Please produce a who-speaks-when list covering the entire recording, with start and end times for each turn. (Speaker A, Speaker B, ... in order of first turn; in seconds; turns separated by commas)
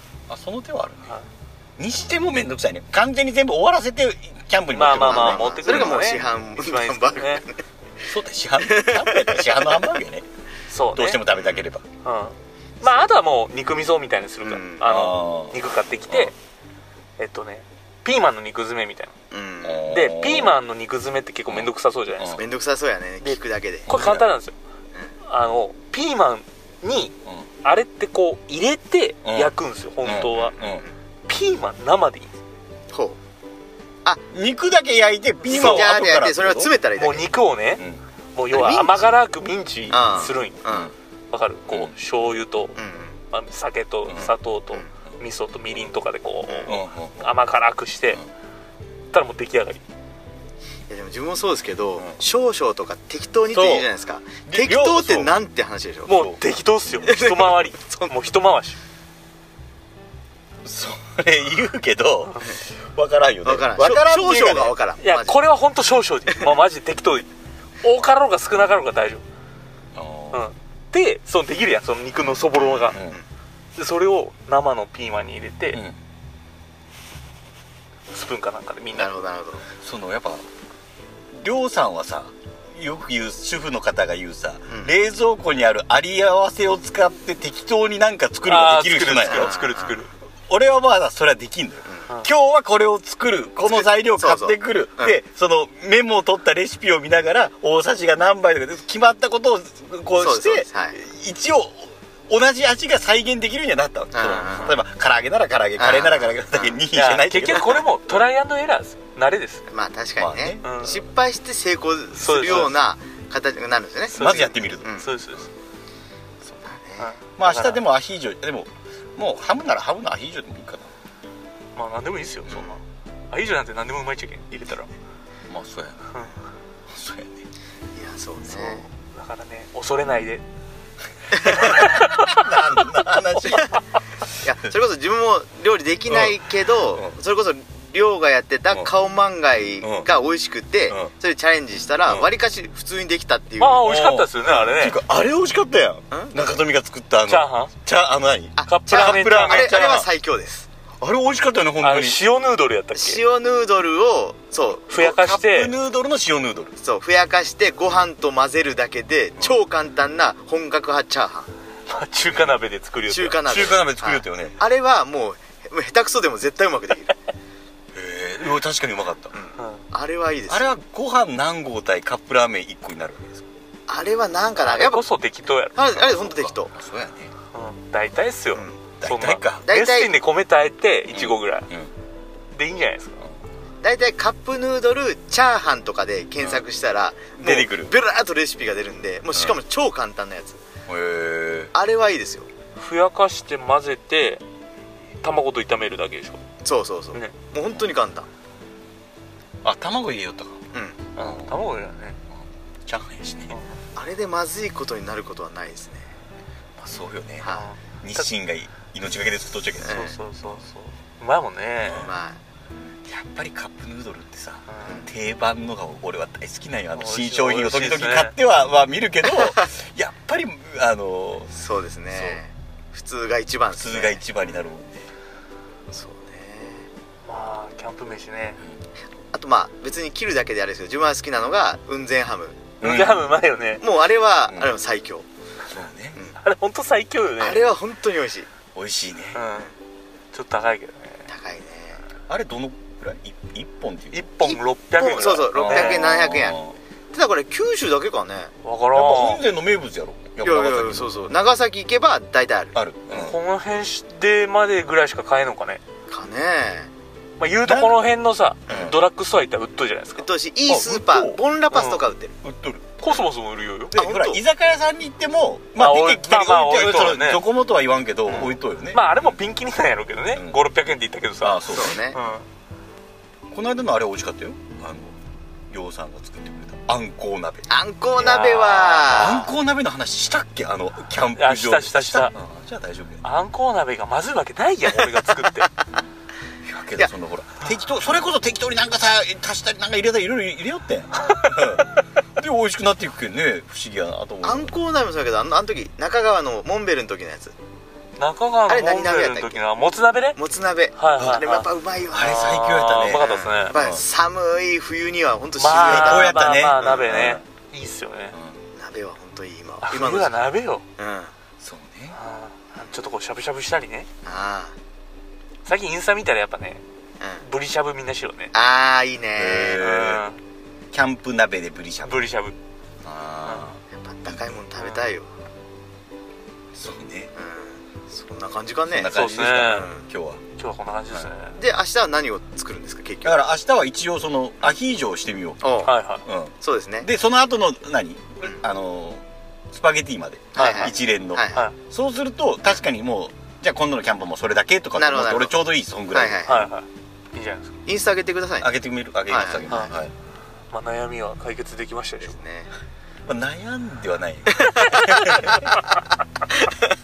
Speaker A: 0.3-1.2, Speaker A: 1.8-6.3, Speaker B: 4.7-7.4, Speaker C: 4.9-7.6, Speaker A: 8.0-10.2, Speaker C: 8.6-9.8, Speaker B: 10.7-11.2, Speaker A: 10.9-11.8, Speaker B: 12.0-16.3, Speaker C: 14.4-14.9, Speaker A: 14.8-15.6, Speaker B: 17.2-19.1, Speaker C: 19.3-19.9, Speaker A: 19.6-20.6, Speaker B: 19.9-22.4, Speaker A: 21.5-22.4, Speaker C: 22.4-23.9, Speaker B: 23.2-24.6, Speaker A: 23.9-24.3, Speaker B: 25.2-30.6, Speaker A: 29.2-30.8, Speaker C: 30.3-30.9, Speaker B: 31.3-32.3, Speaker C: 32.9-33.2, Speaker A: 34.3-36.7, Speaker C: 35.4-37.3, Speaker B: 35.5-35.9, Speaker B: 37.0-37.8, Speaker B: 38.3-40.6, Speaker C: 38.5-39.1, Speaker C: 39.9-40.9, Speaker B: 41.3-42.8, Speaker C: 42.7-43.2, Speaker B: 43.3-48.2, Speaker A: 44.1-44.3, Speaker C: 46.4-46.7, Speaker A: 46.6-47.3, Speaker B: 49.1-49.8, Speaker C: 50.9-56.2, Speaker A: 53.5-53.9, Speaker A: 54.5-55.3, Speaker B: 56.1-58.8, Speaker A: 56.1-56.4, Speaker C: 57.0-58.1, Speaker A: 60.6-64.7, Speaker C: 63.4-65.4, Speaker B: 65.0-67.3, Speaker B: 67.8-69.2, Speaker A: 69.9-70.5, Speaker B: 70.3-73.0, Speaker C: 72.5-73.2, Speaker A: 72.9-73.2, Speaker B: 73.8-75.8, Speaker A: 75.7-76.0, Speaker B: 78.1-79.1, Speaker C: 78.9-79.6, Speaker A: 79.8-80.4, Speaker A: 81.3-89.5, Speaker B: 88.5-90.1, Speaker C: 89.2-90.0, Speaker A: 90.5-108.2, Speaker C: 93.6-95.2, Speaker C: 100.2-101.0, Speaker C: 104.1-104.8, Speaker C: 105.8-106.8, Speaker B: 106.9-109.6, Speaker C: 107.5-107.8, Speaker C: 109.7-115.1, Speaker A: 110.2-110.6, Speaker B: 110.6-111.0, Speaker B: 112.2-112.7, Speaker A: 112.4-112.7, Speaker B: 114.1-115.5, Speaker A: 114.1-115.0, Speaker C: 116.7-117.1, Speaker B: 117.0-117.8, Speaker A: 117.4-120.9, Speaker B: 121.7-124.9, Speaker A: 122.5-122.7, Speaker A: 125.5-126.2, Speaker A: 126.9-127.4, Speaker C: 128.0-128.8, Speaker B: 128.4-130.4, Speaker C: 131.3-131.7, Speaker B: 131.4-133.8, Speaker A: 131.5-133.8, Speaker C: 133.5-133.7, Speaker C: 134.4-143.9, Speaker A: 136.1-136.4, Speaker A: 139.8-140.1, Speaker B: 143.6-145.0, Speaker A: 143.8-150.1, Speaker C: 146.1-146.5, Speaker B: 147.2-147.7, Speaker C: 148.6-150.7, Speaker B: 148.6-149.7, Speaker A: 151.0-152.2, Speaker B: 151.8-153.2, Speaker C: 152.9-154.9, Speaker B: 154.9-155.7, Speaker A: 154.9-156.7, Speaker C: 156.8-161.5, Speaker B: 161.9-163.7, Speaker C: 163.1-167.2, Speaker A: 163.4-164.6, Speaker A: 167.9-169.3, Speaker C: 169.3-170.7, Speaker B: 169.6-169.8, Speaker A: 170.5-173.5, Speaker C: 173.9-175.1, Speaker B: 174.6-175.9, Speaker C: 175.7-176.7, Speaker A: 175.9-177.3, Speaker B: 177.5-181.7, Speaker A: 179.0-179.7, Speaker C: 179.6-180.1, Speaker A: 181.1-181.9, Speaker B: 182.5-183.2, Speaker C: 183.8-190.6, Speaker A: 187.4-187.9, Speaker A: 190.9-191.7, Speaker C: 191.7-192.5, Speaker B: 192.8-194.4, Speaker B: 195.2-196.4, Speaker C: 196.6-198.3, Speaker A: 199.6-200.6, Speaker C: 200.7-201.0, Speaker B: 201.2-202.2, Speaker A: 201.2-201.8, Speaker A: 202.8-203.6, Speaker B: 203.5-203.8, Speaker C: 203.9-206.1, Speaker A: 206.8-210.0, Speaker C: 207.4-207.7, Speaker B: 207.5-208.3, Speaker C: 209.8-210.2, Speaker B: 209.8-212.1, Speaker A: 211.8-212.1, Speaker C: 211.9-212.4, Speaker A: 213.0-221.5, Speaker B: 214.7-215.0, Speaker C: 214.8-215.1, Speaker B: 216.9-218.4, Speaker C: 219.3-219.6, Speaker C: 221.5-224.2, Speaker A: 222.1-222.4, Speaker A: 223.7-225.1, Speaker C: 225.9-226.9, Speaker B: 227.2-228.6, Speaker C: 229.3-232.7, Speaker A: 232.8-233.3, Speaker B: 232.8-233.8, Speaker C: 233.8-235.2, Speaker A: 235.7-236.2, Speaker B: 236.4-237.7, Speaker C: 237.4-238.5, Speaker A: 238.7-239.4, Speaker B: 239.3-239.7, Speaker B: 240.3-241.3, Speaker C: 241.3-242.0, Speaker A: 242.3-244.3, Speaker B: 244.1-246.2, Speaker C: 244.4-246.6, Speaker A: 245.5-246.8, Speaker C: 247.1-248.5, Speaker B: 248.6-249.4, Speaker A: 248.9-251.3, Speaker C: 250.4-252.8, Speaker A: 252.7-253.4, Speaker B: 253.1-255.8, Speaker C: 256.1-256.9, Speaker B: 257.4-260.3, Speaker A: 257.6-258.1, Speaker C: 258.7-258.9, Speaker A: 258.7-259.0, Speaker C: 260.2-262.4, Speaker A: 260.7-261.4, Speaker B: 261.7-262.0, Speaker A: 262.4-263.2, Speaker B: 263.0-263.9, Speaker A: 263.9-269.2, Speaker C: 263.9-264.4, Speaker B: 265.8-267.4, Speaker B: 268.4-272.4, Speaker A: 270.3-270.6, Speaker A: 271.4-272.0, Speaker C: 271.7-272.2, Speaker A: 273.5-275.1, Speaker A: 275.7-277.7, Speaker C: 277.7-279.4, Speaker B: 278.1-279.5, Speaker A: 279.1-283.2, Speaker B: 281.3-282.3, Speaker B: 283.2-285.7, Speaker A: 286.6-294.7, Speaker B: 291.2-291.9, Speaker C: 294.4-297.5, Speaker B: 298.2-300.4, Speaker C: 298.7-299.7, Speaker C: 300.4-302.4, Speaker B: 300.9-303.8, Speaker A: 302.1-304.0, Speaker C: 303.1-307.0, Speaker B: 305.6-308.3, Speaker A: 305.7-307.4, Speaker A: 308.3-308.6, Speaker C: 308.8-310.4, Speaker B: 309.8-310.8, Speaker C: 311.0-311.3, Speaker A: 311.6-312.2, Speaker B: 312.1-314.1, Speaker C: 314.2-314.7, Speaker B: 315.6-316.8, Speaker C: 317.2-317.4, Speaker B: 317.4-318.5, Speaker C: 318.5-319.8, Speaker A: 319.4-320.2, Speaker B: 319.8-320.4, Speaker A: 320.9-322.2, Speaker B: 322.0-322.6, Speaker A: 323.0-324.5, Speaker C: 323.9-325.3, Speaker B: 324.8-325.1, Speaker A: 326.7-327.3, Speaker C: 327.4-330.0, Speaker A: 328.9-330.4, Speaker B: 329.1-329.9, Speaker B: 330.6-331.6, Speaker C: 331.6-333.4, Speaker A: 333.2-335.7, Speaker C: 335.6-335.9, Speaker B: 335.8-336.2, Speaker A: 336.2-346.5, Speaker C: 336.6-337.1, Speaker C: 340.5-341.7, Speaker B: 340.6-340.9, Speaker C: 344.9-345.5, Speaker C: 346.1-346.7, Speaker B: 346.4-347.7, Speaker C: 347.9-348.7, Speaker A: 348.6-350.1, Speaker C: 349.3-349.9, Speaker B: 349.7-349.9, Speaker B: 350.7-352.4, Speaker C: 352.2-352.7, Speaker A: 353.2-355.6, Speaker C: 354.5-355.0